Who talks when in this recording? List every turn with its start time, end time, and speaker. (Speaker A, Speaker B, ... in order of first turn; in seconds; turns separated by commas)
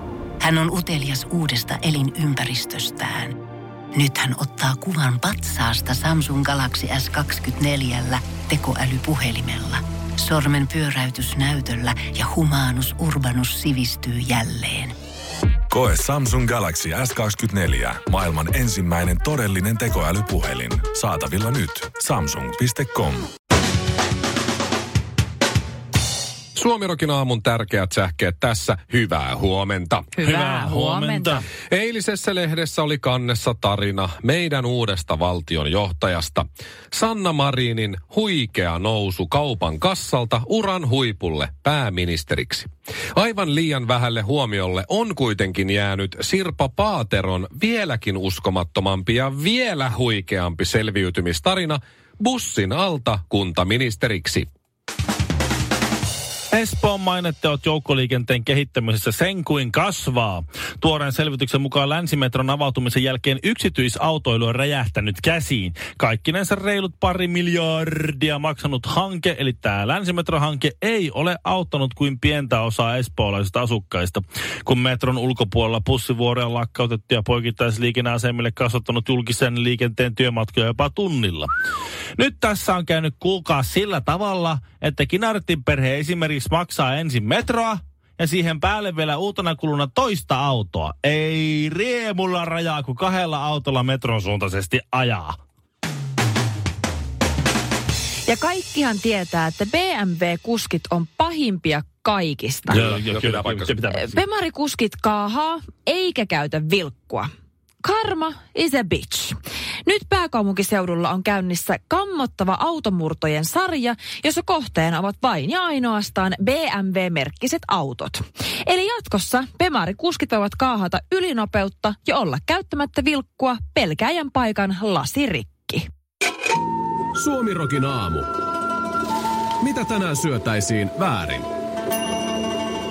Speaker A: 0.4-3.4, Speaker A: 3.9-14.9, Speaker B: 15.7-23.3, Speaker C: 26.6-30.1, Speaker D: 30.1-31.5, Speaker E: 30.2-31.4, Speaker C: 31.7-54.5, Speaker E: 56.5-81.5, Speaker E: 82.2-95.4, Speaker D: 98.3-102.8, Speaker C: 102.7-103.8, Speaker E: 102.7-104.2, Speaker D: 103.9-107.3, Speaker D: 107.8-125.9, Speaker F: 127.2-128.3, Speaker F: 129.6-131.5